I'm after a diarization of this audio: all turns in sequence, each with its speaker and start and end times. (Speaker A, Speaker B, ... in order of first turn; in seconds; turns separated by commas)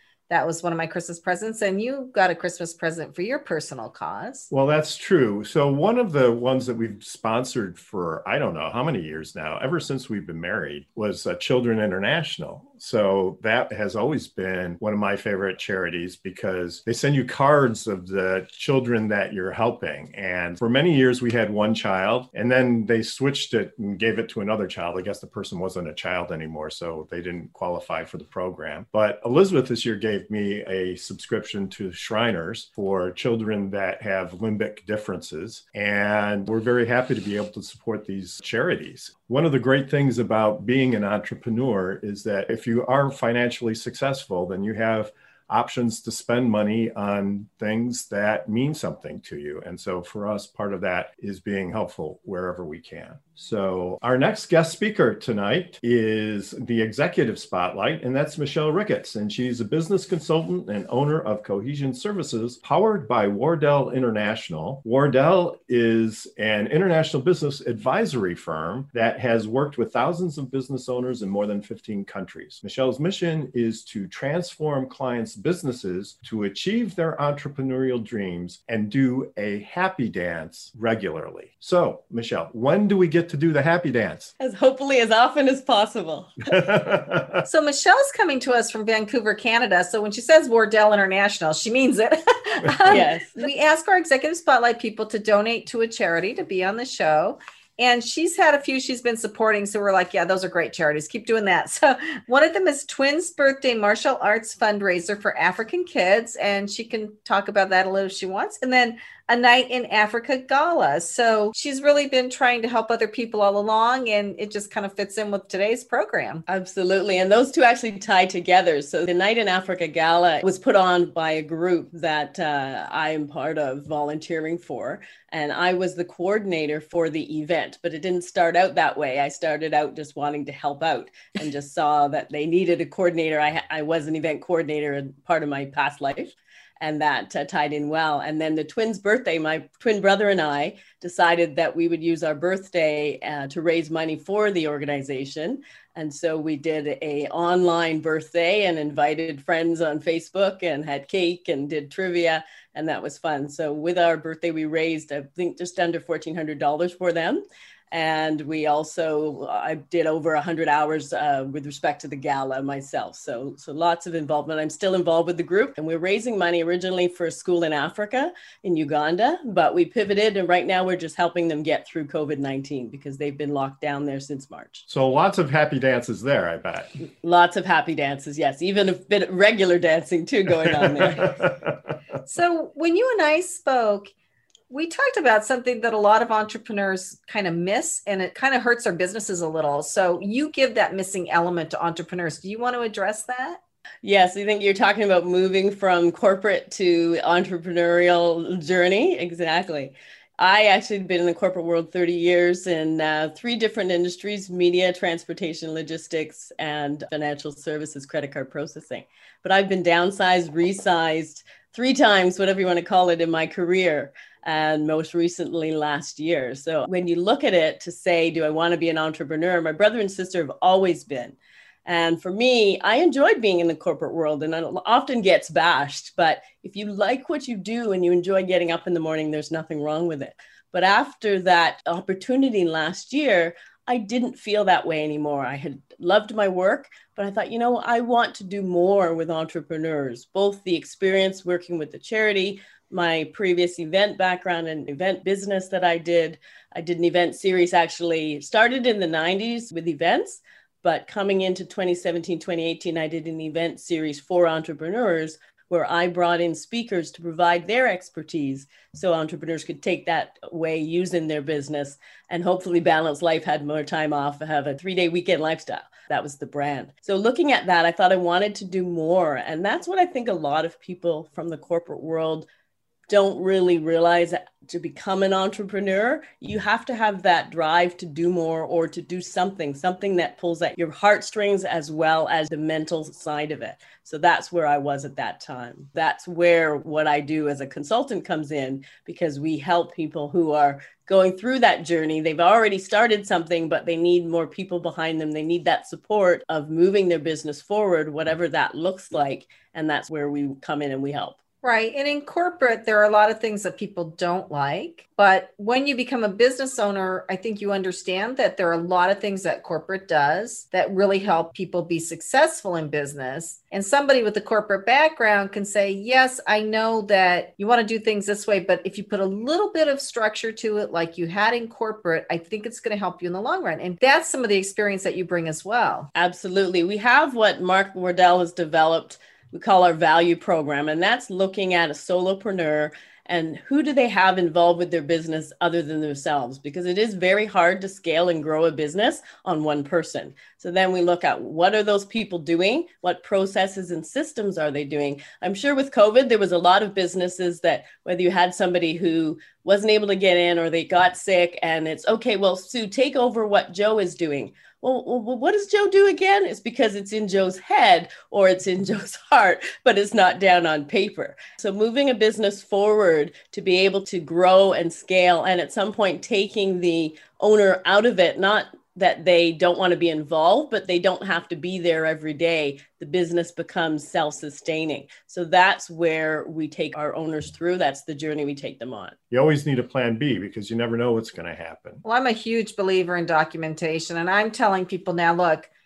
Speaker A: 0.3-4.5, Speaker B: 4.5-84.3, Speaker C: 84.4-86.5, Speaker B: 86.5-87.4, Speaker A: 87.4-116.4, Speaker C: 92.9-93.4, Speaker C: 116.5-174.8, Speaker B: 174.9-176.9, Speaker C: 177.2-181.3, Speaker B: 180.6-181.8, Speaker A: 182.3-184.1, Speaker A: 184.7-193.6, Speaker C: 194.0-272.5, Speaker C: 273.1-301.4, Speaker A: 301.6-326.1, Speaker C: 326.1-379.1, Speaker B: 379.3-382.0, Speaker A: 382.0-385.7